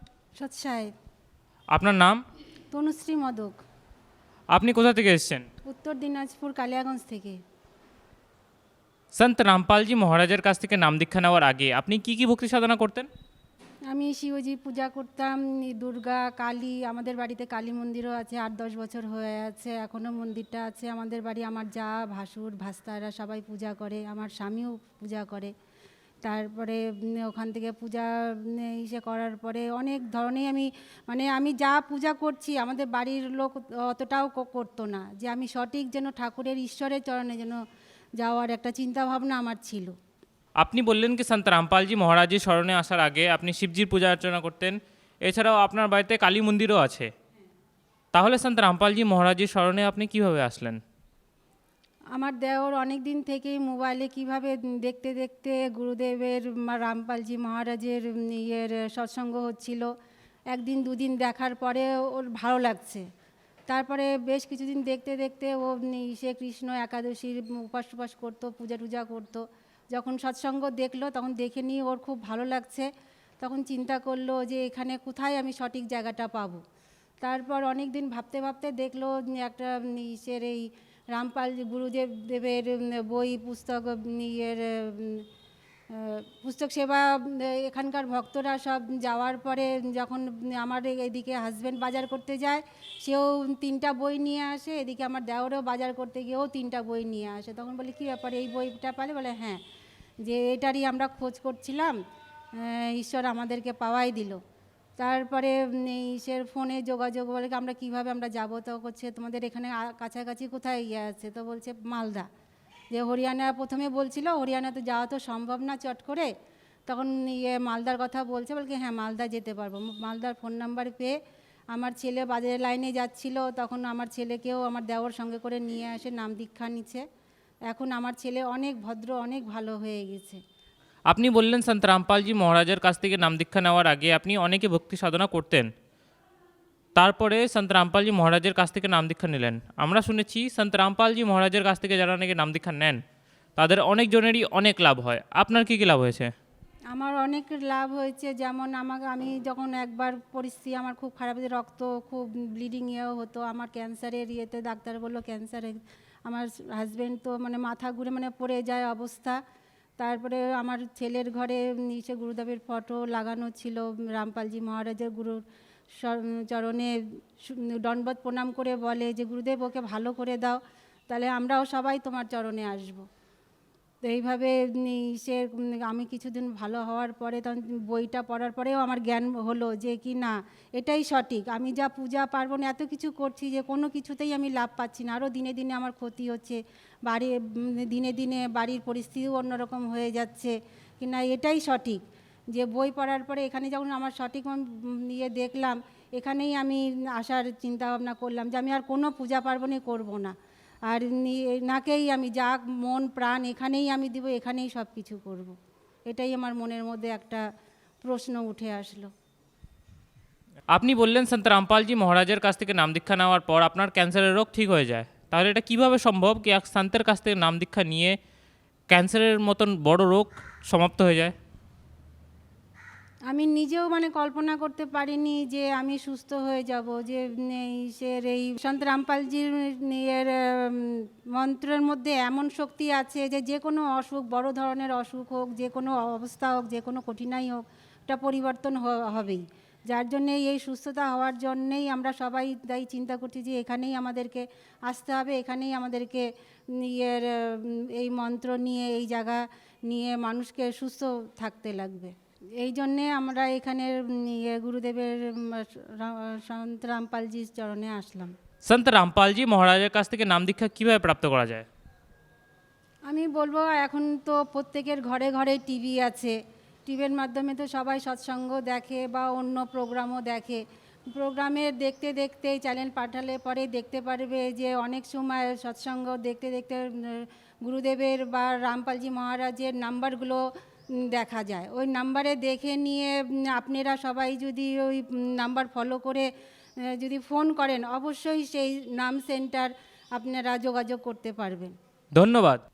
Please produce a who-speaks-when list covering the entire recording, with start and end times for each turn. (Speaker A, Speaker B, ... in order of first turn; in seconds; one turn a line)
Speaker A: 0.4-0.9
Speaker B: 1.7-2.2
Speaker A: 2.7-3.6
Speaker B: 4.5-5.5
Speaker A: 5.7-7.4
Speaker B: 9.2-13.1
Speaker A: 13.9-25.5
Speaker A: 26.2-37.6
Speaker A: 38.2-40.0
Speaker B: 40.6-47.1
Speaker B: 48.1-50.8
Speaker A: 52.2-59.9
Speaker A: 60.5-63.1
Speaker A: 63.7-72.9
Speaker A: 73.4-76.6
Speaker A: 77.2-85.3
Speaker A: 85.9-99.6
Speaker A: 100.2-102.0
Speaker A: 102.5-104.4
Speaker A: 105.0-112.3
Speaker A: 112.9-116.3
Speaker A: 116.9-121.2
Speaker A: 121.7-127.0
Speaker A: 127.7-130.4
Speaker B: 131.1-135.7
Speaker B: 137.0-143.0
Speaker B: 143.6-146.3
Speaker A: 146.9-159.4
Speaker A: 160.0-165.4
Speaker A: 166.0-173.0
Speaker A: 174.1-200.3
Speaker A: 200.9-205.6
Speaker A: 206.1-207.5
Speaker A: 208.0-209.1
Speaker B: 210.7-218.2
Speaker B: 218.9-221.3
Speaker A: 223.3-258.4
Speaker B: 258.7-261.7
Speaker A: 263.1-286.3
Speaker A: 286.8-291.8
Speaker B: 292.1-292.6